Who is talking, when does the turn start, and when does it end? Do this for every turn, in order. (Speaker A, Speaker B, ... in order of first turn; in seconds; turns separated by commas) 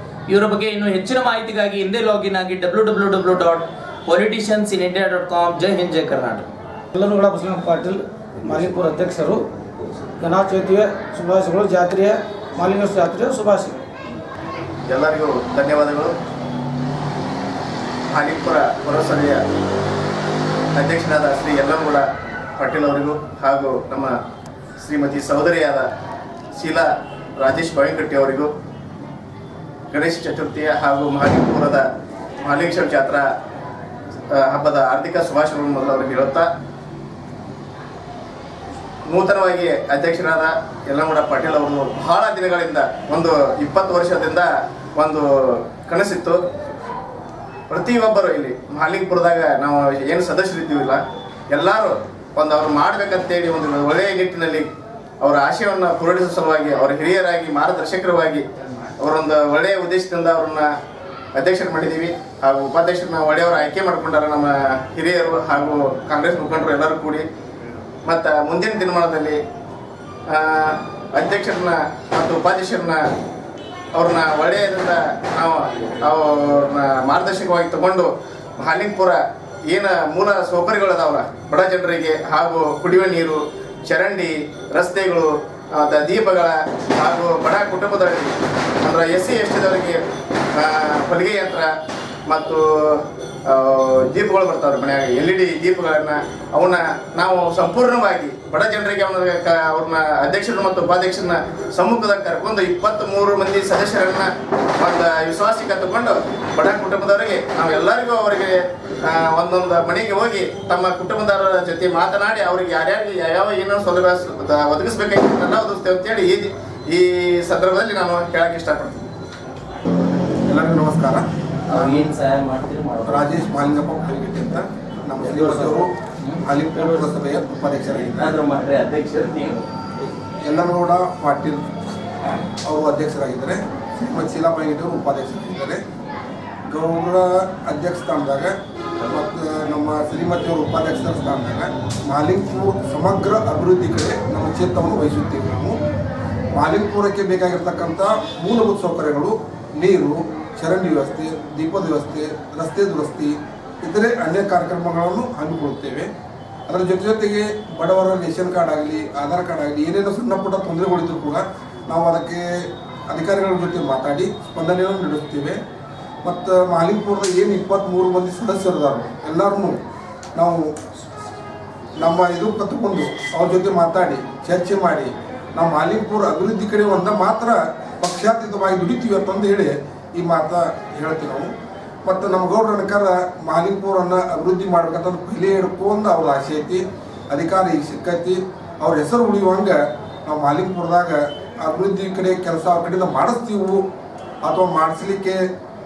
Speaker A: 0.3-6.5, Speaker B: 6.9-9.4, Speaker B: 10.2-13.8, Speaker C: 14.9-16.1, Speaker C: 18.1-19.4, Speaker C: 20.7-22.1, Speaker C: 22.6-24.1, Speaker C: 24.8-25.9, Speaker C: 26.5-28.5, Speaker C: 29.9-31.9, Speaker C: 32.4-33.3, Speaker C: 34.3-36.5, Speaker C: 39.1-46.4, Speaker C: 47.7-54.7, Speaker C: 55.2-58.4, Speaker C: 59.0-60.7, Speaker C: 61.4-67.2, Speaker C: 68.0-69.4, Speaker C: 70.3-73.0, Speaker C: 73.9-79.2, Speaker C: 79.7-90.0, Speaker C: 90.5-91.7, Speaker C: 92.3-119.0, Speaker D: 120.5-122.1, Speaker A: 121.7-123.5, Speaker D: 123.0-125.9, Speaker A: 125.2-127.1, Speaker D: 126.4-128.4, Speaker A: 128.0-129.7, Speaker D: 130.4-131.7, Speaker D: 132.6-135.8, Speaker D: 136.7-145.8, Speaker D: 146.5-156.1, Speaker D: 156.7-165.6, Speaker D: 166.2-169.8, Speaker D: 170.3-170.8, Speaker D: 172.0-181.5, Speaker D: 182.0-193.8, Speaker D: 194.4-195.4